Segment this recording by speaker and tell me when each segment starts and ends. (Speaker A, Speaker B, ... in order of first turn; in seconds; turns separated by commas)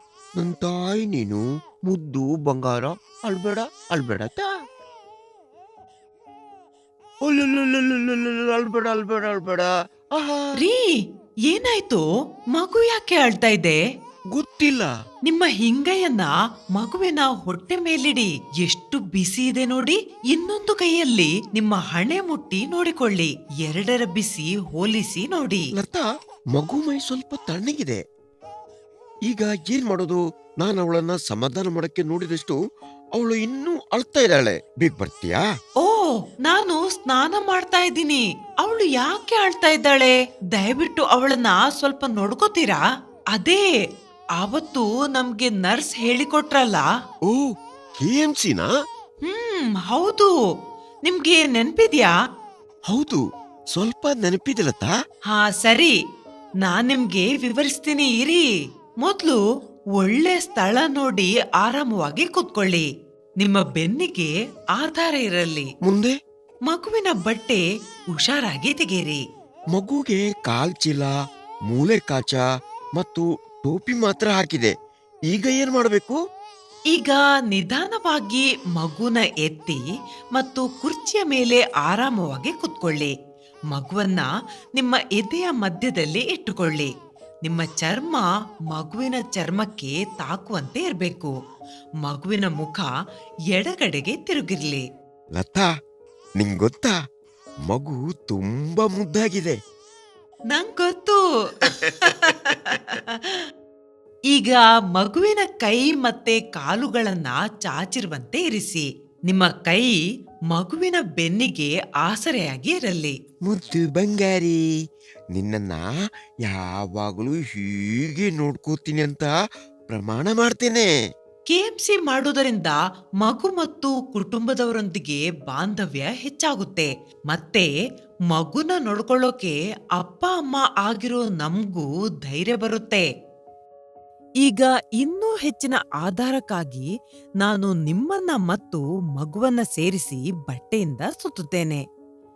Speaker A: 0.4-4.5, Speaker A: 7.2-10.6, Speaker B: 10.6-13.8, Speaker A: 14.3-14.9, Speaker B: 15.3-25.7, Speaker A: 25.8-28.0, Speaker A: 29.3-32.6, Speaker A: 33.1-35.4, Speaker B: 35.8-43.7, Speaker B: 44.4-46.9, Speaker A: 47.3-48.7, Speaker B: 49.2-50.3, Speaker B: 51.0-52.1, Speaker A: 52.9-53.2, Speaker A: 53.7-54.9, Speaker B: 55.3-55.9, Speaker B: 56.6-58.5, Speaker B: 59.0-59.4, Speaker B: 60.0-62.9, Speaker B: 63.4-65.7, Speaker A: 65.8-66.1, Speaker B: 66.7-67.6, Speaker B: 68.1-69.2, Speaker A: 69.7-71.1, Speaker A: 71.7-72.4, Speaker A: 73.0-74.7, Speaker A: 75.3-76.2, Speaker B: 76.9-79.8, Speaker B: 80.3-83.1, Speaker B: 83.7-86.9, Speaker B: 87.4-91.3, Speaker B: 92.0-92.9, Speaker B: 93.5-94.8, Speaker A: 95.3-95.7, Speaker A: 96.4-96.9, Speaker A: 97.7-99.6, Speaker B: 100.5-103.4, Speaker A: 101.6-102.8, Speaker B: 104.3-110.0, Speaker B: 110.5-113.2, Speaker A: 113.5-114.6, Speaker A: 115.3-115.9, Speaker A: 116.5-119.3, Speaker A: 119.9-120.9, Speaker B: 121.5-127.7, Speaker B: 128.3-133.1, Speaker B: 134.4-136.9, Speaker B: 137.4-141.8